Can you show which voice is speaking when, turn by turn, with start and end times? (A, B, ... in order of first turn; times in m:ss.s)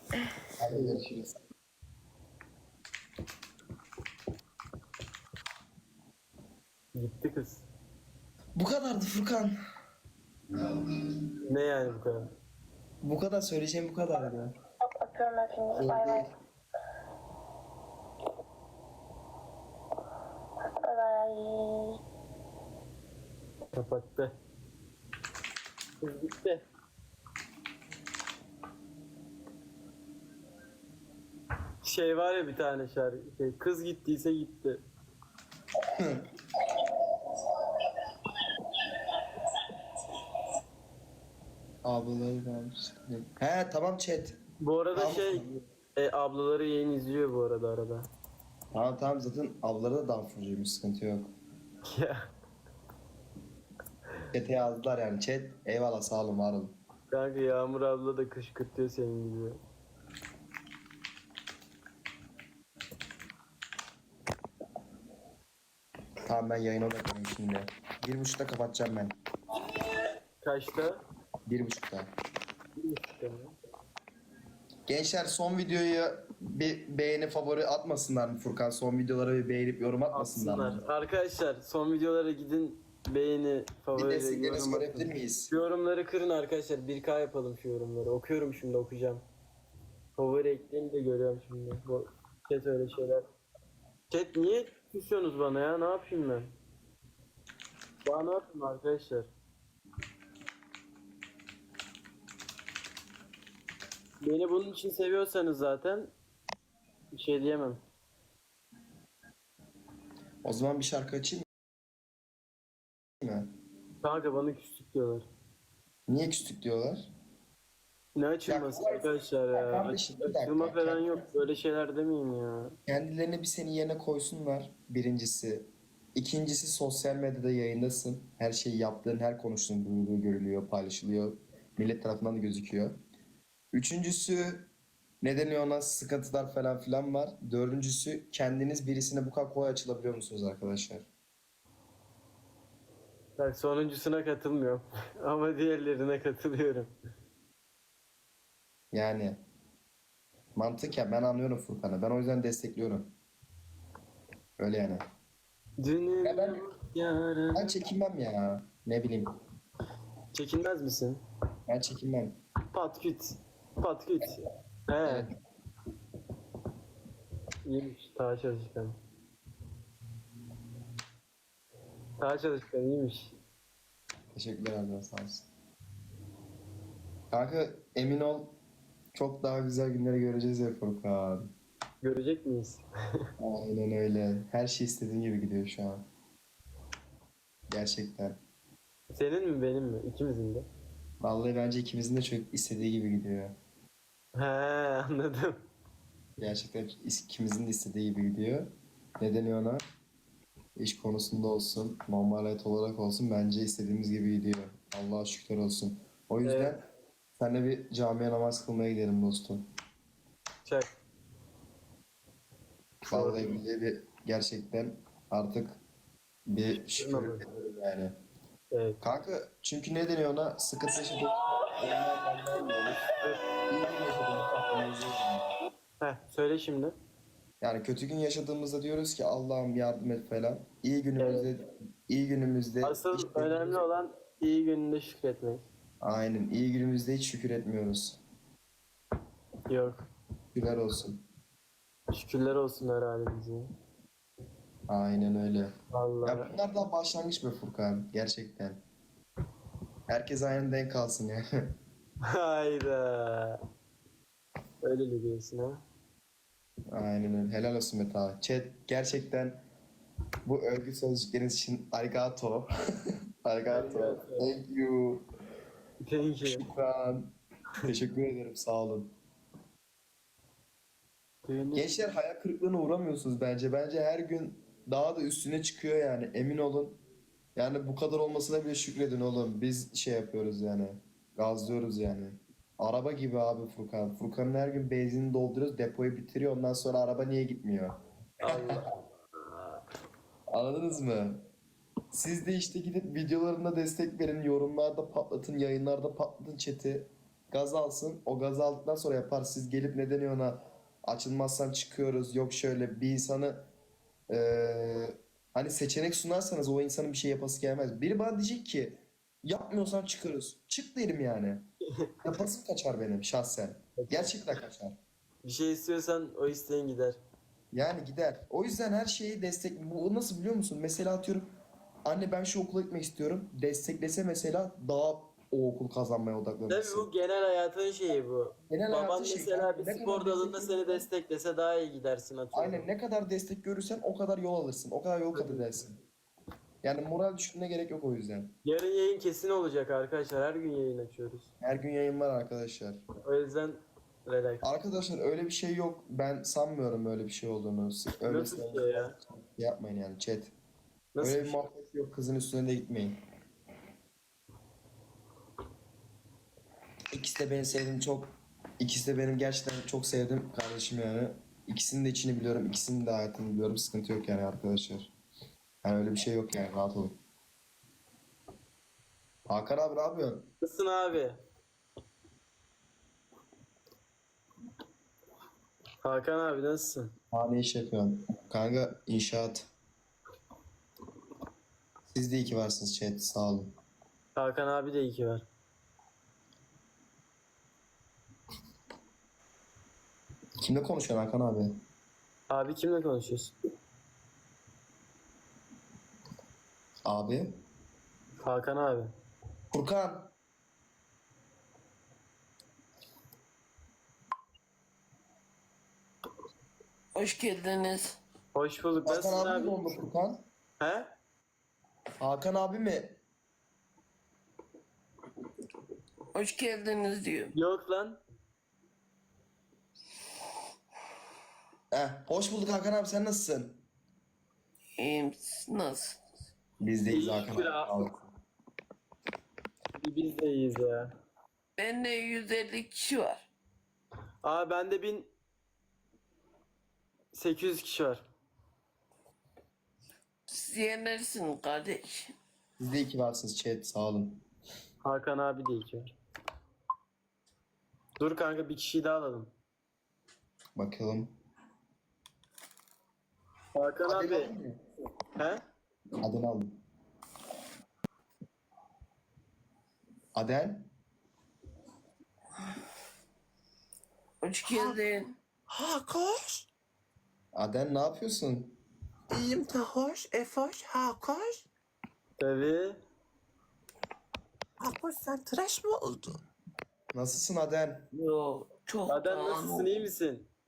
0:00.6-0:01.4 A
0:00.7-0:01.0 B
0:06.9-0:07.6 B
0:08.5-0:09.6 A
0:11.5-0:12.3 B
0:13.0-0:14.5 A
0:15.0-0:16.3 C
0:15.8-0:16.3 A
0:20.8-0:21.9 C
0:23.7-0:24.3 B
0:26.0-0:26.6 B
0:31.8-0:34.8 B
0:36.0-0:36.3 A
0:41.8-0:44.4 A
0:44.6-0:48.1 B
0:44.9-0:45.4 A
0:48.7-0:51.3 A
0:51.8-0:52.3 B
0:54.3-0:56.8 A
0:57.1-0:59.6 B
1:06.2-1:09.2 A
1:10.4-1:11.0 B
1:11.5-1:12.1 A
1:12.8-1:13.5 B
1:14.9-1:20.8 A
1:20.1-1:29.2 B
1:23.9-1:25.5 A
1:30.2-1:33.3 B
1:34.1-1:36.5 B
1:38.0-1:39.3 B
1:44.2-1:46.1 B
1:47.1-1:47.8 B
1:50.4-1:51.4 A
1:53.2-1:53.5 A
1:54.0-1:55.3 B
1:56.1-1:57.1 A
1:58.1-2:02.7 B
1:58.4-2:01.3 A
2:02.9-2:13.0 A
2:13.7-2:14.7 A
2:15.2-2:21.0 A
2:23.4-2:26.9 B
2:28.9-2:29.4 A
2:30.6-2:33.1 A
2:34.6-2:35.0 A
2:35.8-2:37.7 B
2:36.2-2:36.6 A
2:37.5-2:39.3 A
2:40.3-2:41.2 B
2:41.7-2:42.4 A
2:42.7-2:45.3 B
2:45.0-2:45.3 A
2:47.6-2:49.0 B
2:52.2-2:53.4 B
2:54.3-2:55.5 A
2:57.3-2:58.6 A
2:59.1-3:01.5 A
3:02.0-3:03.3 B
3:03.4-3:06.0 A
3:07.7-3:08.4 A
3:09.1-3:10.7 B
3:11.2-3:13.5 A
3:14.3-3:15.6 B
3:16.4-3:19.8 A
3:20.8-3:26.8 A
3:26.4-3:26.8 B
3:27.4-3:29.7 A
3:30.6-3:30.9 B
3:33.1-3:35.8 A
3:33.1-3:33.6 B
3:36.5-3:38.1 A
3:37.0-3:37.4 B
3:38.7-3:39.0 B
3:39.0-3:43.1 A
3:43.6-3:45.5 A
3:46.0-3:47.0 B
3:47.6-3:53.8 A
3:51.2-3:51.5 B
3:52.8-3:55.6 B
3:56.0-3:58.2 A
3:59.7-4:00.0 B
4:00.5-4:01.2 A
4:02.1-4:03.7 B
4:04.9-4:05.7 A
4:05.9-4:06.5 B
4:06.2-4:08.8 A
4:10.1-4:11.7 A
4:12.3-4:13.6 B
4:14.8-4:15.8 B
4:16.9-4:19.7 A
4:20.4-4:22.7 A
4:23.4-4:25.2 A
4:23.7-4:24.5 B
4:26.0-4:26.6 B
4:26.4-4:29.2 A
4:31.4-4:32.1 B
4:31.7-4:37.0 A
4:37.6-4:48.8 A
4:48.4-4:49.8 B
4:50.5-4:51.4 A
4:52.1-5:03.7 A
5:04.3-5:11.7 A
5:12.2-5:15.0 A
5:14.0-5:14.4 B
5:15.4-5:17.2 B
5:17.7-5:21.5 A
5:22.0-5:27.1 A
5:26.7-5:32.8 B
5:28.7-5:31.0 A
5:32.5-5:36.0 A
5:35.3-5:35.9 B
5:36.8-5:38.6 A
5:38.6-5:41.5 B
5:41.6-5:43.0 A
5:43.2-5:44.7 B
5:44.6-5:50.5 A
5:48.2-5:49.1 B
5:51.1-5:51.6 B
5:51.2-5:53.2 A
5:57.1-6:05.1 A
6:05.8-6:07.2 A
6:09.5-6:10.5 A
6:10.6-6:11.4 B
6:16.0-6:17.1 B
6:17.3-6:19.7 A
6:22.1-6:23.7 A
6:24.4-6:25.4 B
6:30.6-6:31.8 A
6:32.5-6:33.5 B
6:37.0-6:37.6 A
6:38.4-6:39.1 B
6:39.7-6:40.3 A
6:47.1-6:48.2 D
6:48.5-6:49.9 B
6:49.0-6:50.4 A
6:50.8-6:51.1 B
6:52.2-6:53.2 A
6:56.3-6:57.5 D
6:57.5-6:58.2 B
7:01.9-7:03.8 A
7:05.0-7:06.2 D
7:06.8-7:08.3 A
7:07.1-7:08.0 B
7:10.0-7:11.1 B
7:11.8-7:13.4 D
7:14.4-7:15.3 B
7:17.3-7:18.2 B
7:20.5-7:22.3 D
7:22.8-7:24.4 A
7:25.0-7:26.1 B
7:28.2-7:29.5 B
7:30.8-7:31.4 A
7:33.7-7:34.5 B
7:34.1-7:34.8 A
7:35.3-7:35.6 B
7:36.2-7:36.8 A
7:40.3-7:40.9 A
7:44.4-7:45.3 D
7:44.6-7:45.0 E
7:45.7-7:46.7 E
7:47.5-7:48.8 A
7:49.3-7:51.6 E
7:52.4-7:53.0 B
7:54.8-7:56.4 E
7:57.1-7:58.1 A
7:58.1-8:00.0 D
7:59.1-8:00.5 B